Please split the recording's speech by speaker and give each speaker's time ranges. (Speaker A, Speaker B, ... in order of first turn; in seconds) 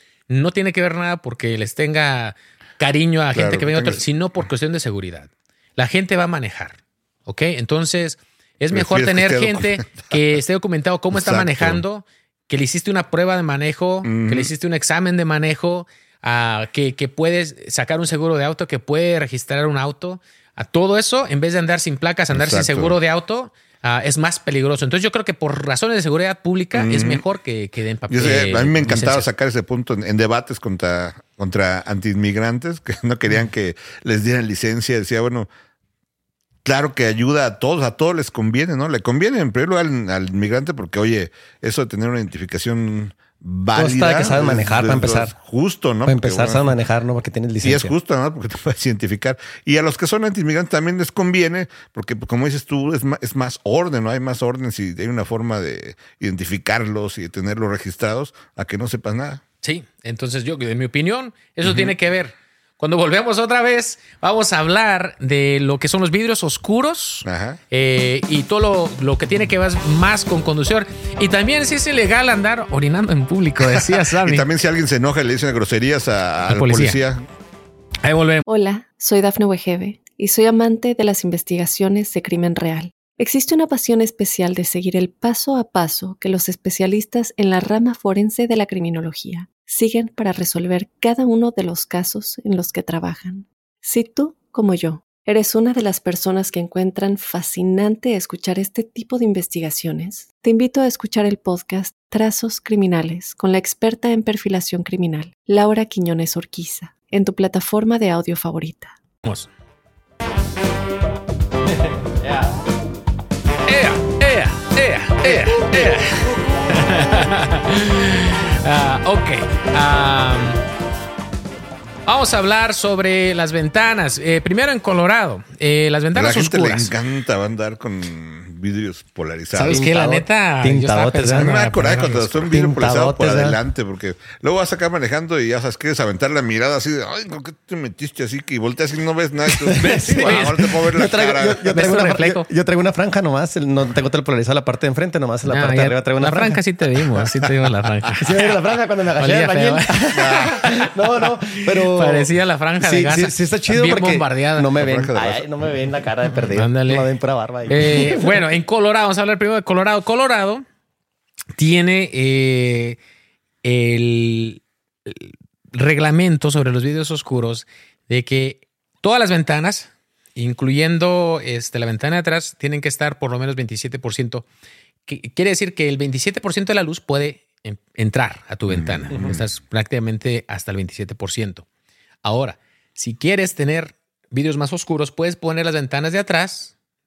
Speaker A: 0.3-29.3, 59.6-74.5, 76.5-77.0, 78.0-78.5, 113.7-120.6, 122.1-126.9, 129.6-132.4, 139.8-140.7, 141.7-142.5, 145.4-148.6, 149.2-154.8, 156.4-157.1, 157.7-160.6, 161.6-163.0, 163.6-174.5, 175.1-181.7, 182.2-186.7
Speaker B: 3.3-4.0, 8.7-10.2, 11.1-11.8, 14.0-14.5, 22.3-23.0, 26.7-27.2, 28.1-35.5, 36.6-46.8, 47.6-59.4, 61.6-61.9, 67.2-67.6, 73.7-77.2, 126.1-129.9, 131.4-141.7, 150.1-150.6, 154.7-155.7, 178.7-179.4
Speaker C: 43.8-45.3, 46.1-47.9, 129.7-133.6, 139.5-146.6, 148.2-152.3, 152.8-158.4
Speaker D: 78.5-108.9